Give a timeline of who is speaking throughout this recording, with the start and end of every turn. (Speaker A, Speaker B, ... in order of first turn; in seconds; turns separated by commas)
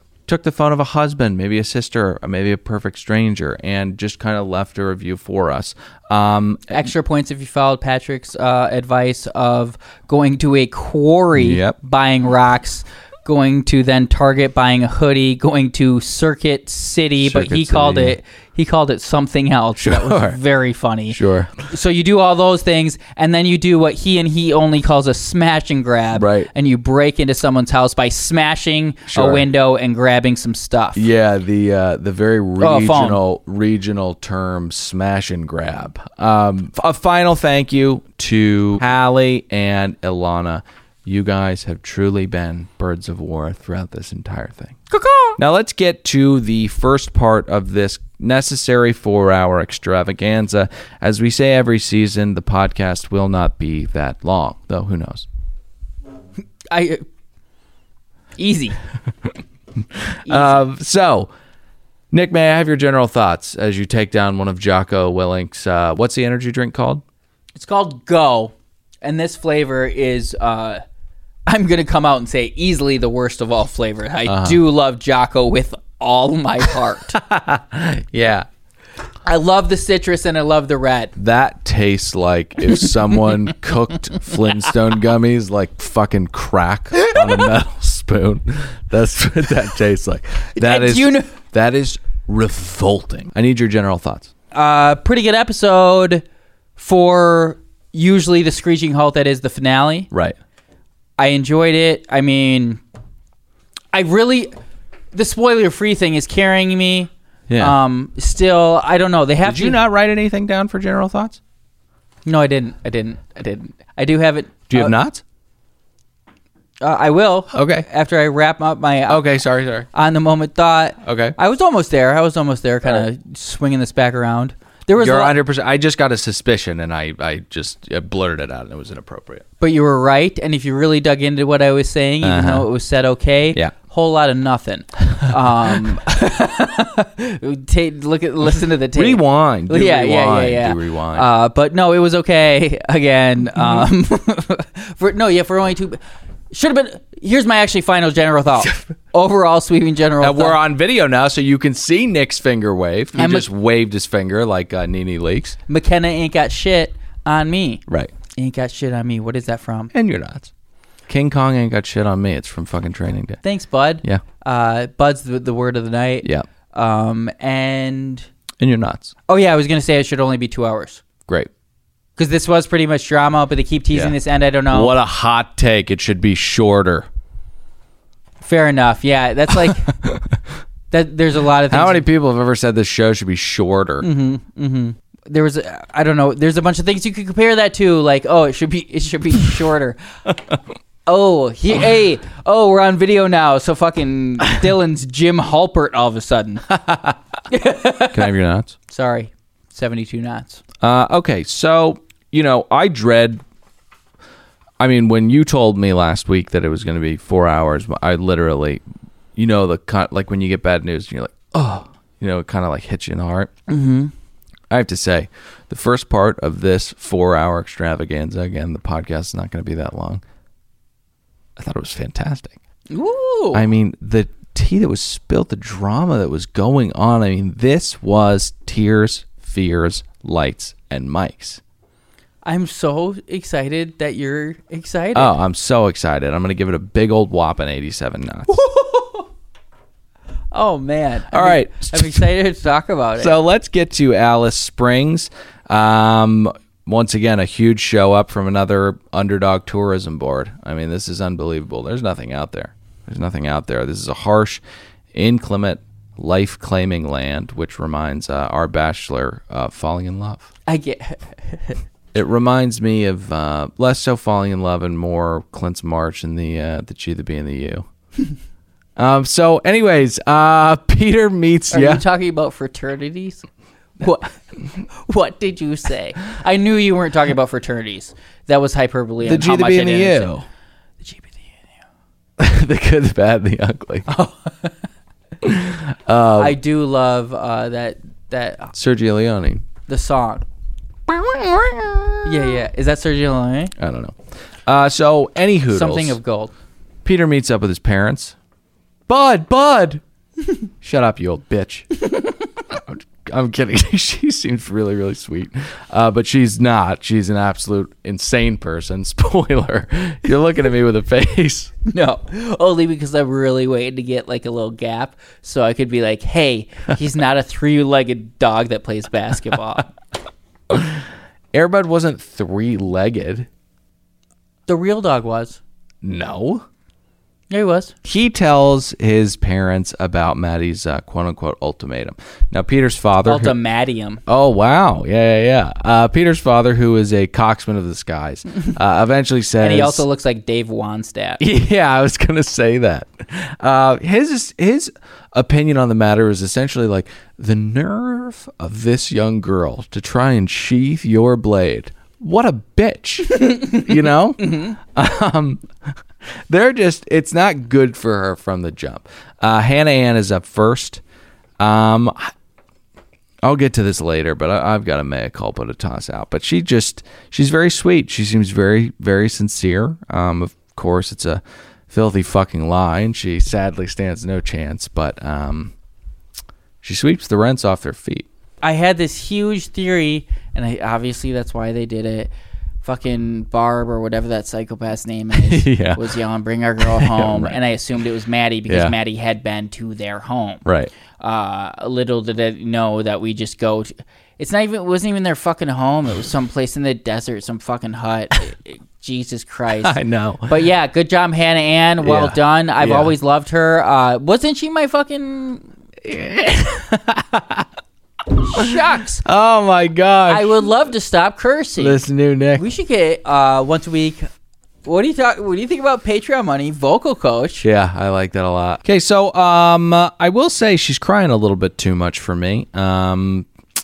Speaker A: 0.3-6.9, Speaker B: 6.7-31.1, Speaker A: 11.3-11.8, Speaker A: 17.2-18.2, Speaker A: 19.8-20.4, Speaker A: 21.1-21.5, Speaker A: 26.1-26.5, Speaker A: 29.1-29.5, Speaker A: 30.9-44.8, Speaker B: 32.6-33.2, Speaker B: 44.9-45.4, Speaker A: 45.4-55.3, Speaker B: 56.7-57.0, Speaker B: 58.4-58.8, Speaker A: 60.0-61.3, Speaker B: 60.2-60.6, Speaker A: 62.1-67.0, Speaker B: 67.5-70.8, Speaker B: 71.5-77.2, Speaker A: 74.2-74.6, Speaker A: 77.1-78.5, Speaker B: 79.2-81.1, Speaker A: 81.2-94.3, Speaker B: 82.7-83.5, Speaker B: 87.0-87.5, Speaker B: 90.5-91.3, Speaker B: 94.5-96.2, Speaker B: 96.8-100.1, Speaker A: 100.1-100.4, Speaker B: 101.2-102.8, Speaker B: 103.9-104.5, Speaker B: 105.1-109.8, Speaker A: 107.5-107.8, Speaker A: 109.4-111.4, Speaker B: 112.2-114.9, Speaker A: 114.7-115.2, Speaker B: 116.8-119.2, Speaker A: 117.5-117.9, Speaker A: 119.1-119.9, Speaker B: 119.9-125.4, Speaker A: 121.0-121.4, Speaker A: 125.0-129.4, Speaker B: 129.6-146.0, Speaker A: 132.2-132.7, Speaker A: 138.9-141.3, Speaker A: 143.6-143.8, Speaker B: 146.5-150.6, Speaker A: 150.2-155.6, Speaker B: 153.1-153.5, Speaker B: 155.7-157.8, Speaker A: 157.9-158.1, Speaker B: 158.4-159.9, Speaker A: 159.9-160.5, Speaker A: 161.1-163.4, Speaker B: 163.4-168.3, Speaker A: 168.6-169.1, Speaker B: 169.3-171.0, Speaker B: 172.2-174.9, Speaker A: 174.7-177.1, Speaker B: 178.4-179.9, Speaker A: 179.6-180.4, Speaker B: 180.9-182.0, Speaker A: 181.7-184.1, Speaker B: 184.0-190.0, Speaker B: 191.1-196.8, Speaker B: 197.5-198.3, Speaker A: 198.1-198.7, Speaker B: 198.9-200.6, Speaker A: 200.8-203.4, Speaker A: 204.8-208.8, Speaker A: 209.3-213.5, Speaker B: 213.7-214.1, Speaker A: 214.7-220.2, Speaker A: 221.6-222.6, Speaker B: 222.9-223.6, Speaker A: 223.5-231.6, Speaker B: 232.4-235.3, Speaker A: 235.1-238.6, Speaker B: 238.5-239.2, Speaker B: 240.5-243.4, Speaker A: 241.3-242.3, Speaker A: 243.2-254.6, Speaker A: 255.1-260.5, Speaker B: 260.7-261.8, Speaker A: 262.1-267.9, Speaker A: 268.9-272.0, Speaker B: 271.7-273.4, Speaker B: 274.0-274.3, Speaker B: 274.9-280.3, Speaker A: 279.2-280.4, Speaker B: 281.0-281.5, Speaker A: 282.4-284.1, Speaker B: 284.1-284.8, Speaker A: 285.4-286.6, Speaker B: 286.4-288.7, Speaker A: 288.7-289.6, Speaker B: 289.9-290.4, Speaker A: 291.1-292.5, Speaker B: 292.2-293.7, Speaker A: 293.8-296.2, Speaker B: 295.7-296.5, Speaker A: 297.0-298.4, Speaker A: 299.1-300.0, Speaker A: 300.8-301.9, Speaker A: 302.7-311.7, Speaker B: 311.9-319.9, Speaker A: 320.7-323.5, Speaker B: 324.7-325.6, Speaker A: 326.0-326.6, Speaker B: 327.5-327.9, Speaker A: 328.0-333.6, Speaker B: 333.2-334.2, Speaker A: 334.3-340.0, Speaker B: 339.6-341.4, Speaker A: 341.4-355.6, Speaker B: 353.4-353.8, Speaker B: 354.4-354.7, Speaker A: 356.5-361.0, Speaker A: 361.6-362.3, Speaker A: 363.4-375.7, Speaker A: 376.8-378.3, Speaker B: 378.6-382.3, Speaker B: 382.8-390.6, Speaker A: 385.3-386.1, Speaker A: 386.8-387.6, Speaker A: 388.7-388.9, Speaker A: 390.6-390.9, Speaker B: 391.2-405.6, Speaker A: 399.8-400.6, Speaker A: 402.0-403.1, Speaker A: 406.0-407.7, Speaker B: 408.4-409.2, Speaker A: 408.6-410.6, Speaker B: 410.3-412.0, Speaker A: 411.8-412.6, Speaker B: 412.6-414.3, Speaker B: 414.8-417.6, Speaker A: 417.6-423.5